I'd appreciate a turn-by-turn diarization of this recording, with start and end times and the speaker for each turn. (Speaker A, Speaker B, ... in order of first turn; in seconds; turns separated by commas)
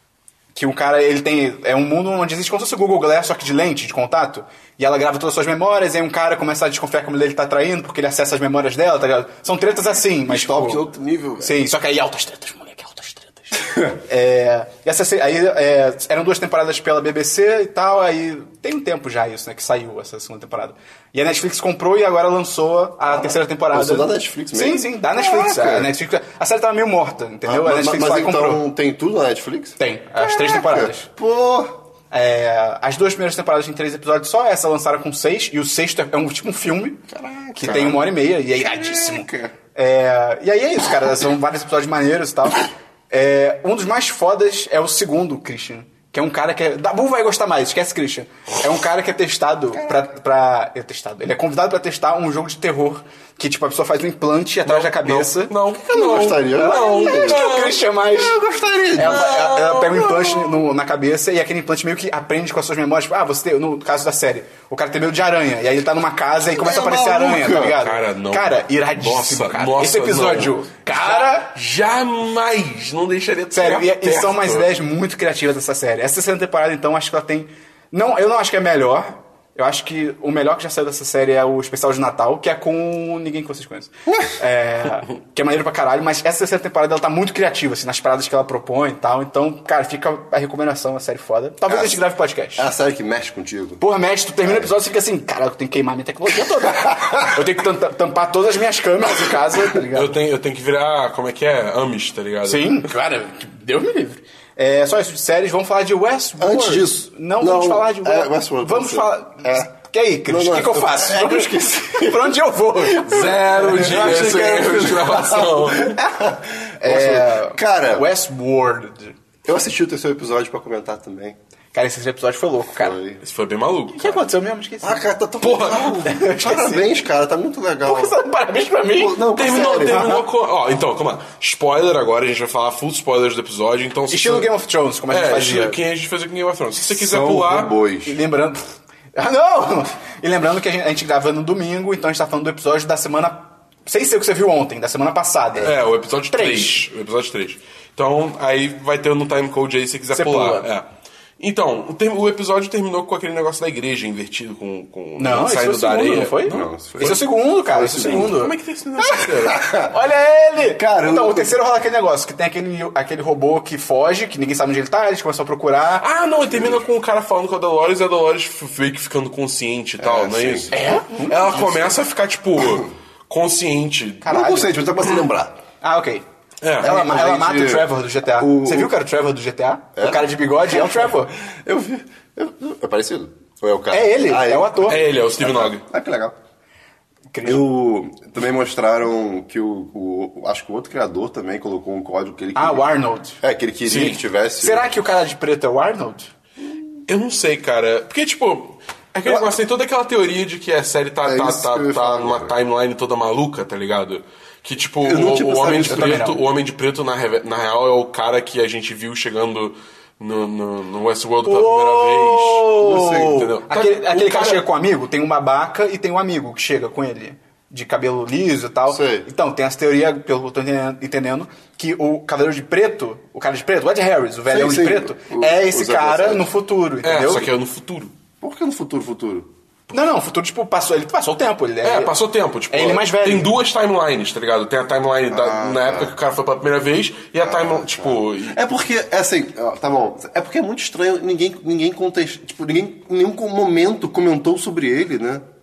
Speaker A: 0.6-10.8, Speaker B: 10.2-11.6, Speaker A: 11.4-28.6, Speaker B: 23.1-25.9, Speaker B: 27.4-31.8, Speaker A: 29.8-31.1, Speaker A: 32.1-55.5, Speaker B: 37.1-38.1, Speaker B: 39.1-39.5, Speaker C: 54.6-57.8, Speaker B: 55.9-57.5, Speaker A: 56.5-58.4, Speaker B: 58.1-59.6, Speaker A: 59.0-71.5, Speaker C: 59.0-60.2, Speaker B: 66.5-67.8, Speaker C: 67.8-74.7, Speaker A: 73.5-92.7, Speaker B: 91.7-92.0, Speaker B: 92.6-93.8, Speaker A: 93.8-100.2, Speaker B: 94.4-94.7, Speaker B: 96.8-97.3, Speaker C: 99.8-102.9, Speaker A: 102.4-114.5, Speaker B: 106.4-109.7, Speaker B: 110.3-112.4, Speaker C: 112.9-116.0, Speaker B: 113.6-118.1, Speaker A: 116.8-119.2, Speaker B: 119.5-121.4, Speaker A: 121.7-123.0, Speaker B: 122.8-123.2, Speaker C: 123.2-124.2, Speaker A: 123.9-125.1, Speaker B: 124.8-128.2, Speaker C: 125.4-126.0, Speaker A: 126.0-126.9, Speaker A: 127.8-130.2, Speaker B: 128.9-130.2, Speaker C: 129.3-134.5, Speaker A: 134.1-135.8, Speaker C: 135.1-137.7, Speaker B: 136.9-138.2, Speaker A: 138.1-138.6, Speaker A: 139.2-146.9, Speaker C: 145.6-150.9, Speaker A: 150.1-150.7, Speaker C: 151.4-157.2, Speaker A: 155.2-158.6, Speaker B: 156.4-158.5, Speaker C: 158.2-159.6, Speaker B: 159.1-159.9, Speaker A: 159.9-166.1, Speaker B: 160.7-161.6, Speaker C: 166.0-174.3, Speaker B: 166.5-166.8, Speaker B: 170.0-170.7, Speaker A: 170.7-171.9, Speaker A: 174.2-174.8, Speaker B: 174.3-175.6, Speaker A: 175.8-176.2, Speaker C: 176.6-177.0, Speaker A: 176.8-181.3, Speaker B: 176.8-178.9, Speaker B: 180.0-186.3, Speaker A: 183.9-185.0, Speaker C: 184.8-185.8, Speaker A: 187.3-187.6, Speaker B: 187.4-192.8, Speaker A: 192.6-193.4, Speaker B: 193.4-194.9, Speaker C: 193.9-194.2, Speaker A: 194.6-196.3, Speaker C: 197.1-214.6, Speaker B: 199.3-199.5, Speaker B: 201.2-202.6, Speaker B: 205.0-206.3, Speaker A: 205.7-206.4, Speaker A: 211.4-227.5, Speaker B: 212.8-213.4, Speaker B: 218.9-219.3, Speaker B: 224.5-226.5, Speaker C: 227.0-228.1, Speaker B: 228.4-229.5, Speaker A: 229.9-232.1, Speaker C: 231.8-238.6, Speaker A: 232.7-233.5, Speaker B: 235.3-236.1, Speaker B: 237.4-245.4